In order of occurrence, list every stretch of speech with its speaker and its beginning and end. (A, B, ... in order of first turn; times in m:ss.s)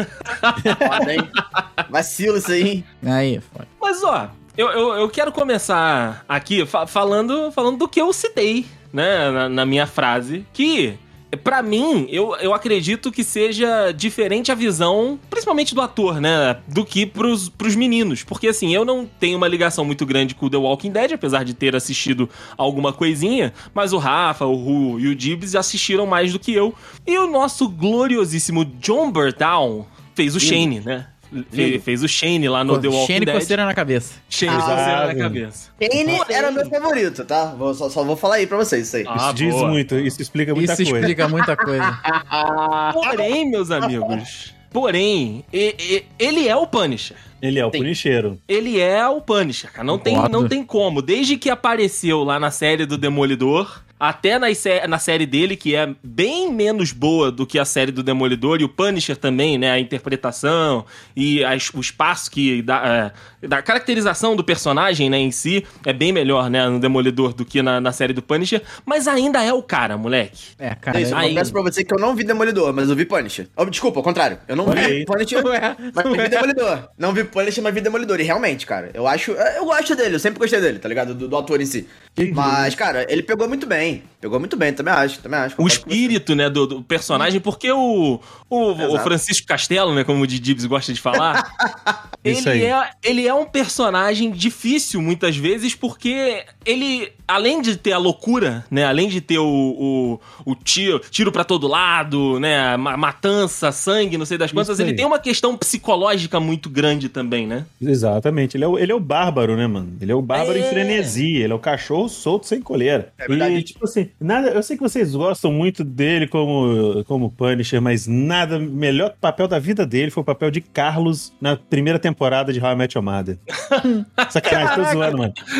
0:00.2-0:01.6 A
0:00.6-0:01.0 B
0:00.8-0:01.4 C
0:01.9-0:02.8 C
0:03.0-0:03.7 D
0:03.8-0:33.6 A
0:30.4-0:30.7 C
0:31.5-0:31.8 C
0:32.7-0:34.2 D
0:34.3-0:36.7 A
0:34.5-0:35.4 B
0:34.5-0:34.9 C
0:35.8-0:39.1 C
0:39.0-0:40.1 A
0:39.2-0:41.1 B
0:40.5-0:42.0 D
0:41.0-0:43.3 C
0:42.9-0:47.2 A
0:43.8-0:44.2 C
0:47.4-0:48.4 B
0:48.5-1:10.5 A
0:49.9-0:50.5 D
1:10.6-1:11.5 D
1:10.9-1:26.2 C
1:11.1-1:11.5 A
1:14.6-1:15.1 B
1:14.6-1:16.5 D
1:22.2-1:22.7 D
1:22.2-1:22.7 B
1:25.6-1:31.4 A
1:28.8-1:29.1 C
1:31.2-1:32.0 C
1:32.2-1:32.7 B
1:32.2-1:47.7 A
1:44.5-1:45.0 B
1:47.8-2:03.4 B
1:50.3-1:51.2 A
1:53.2-1:53.6 C
2:03.7-2:05.0 A
2:03.8-2:05.1 D
2:04.3-2:05.4 B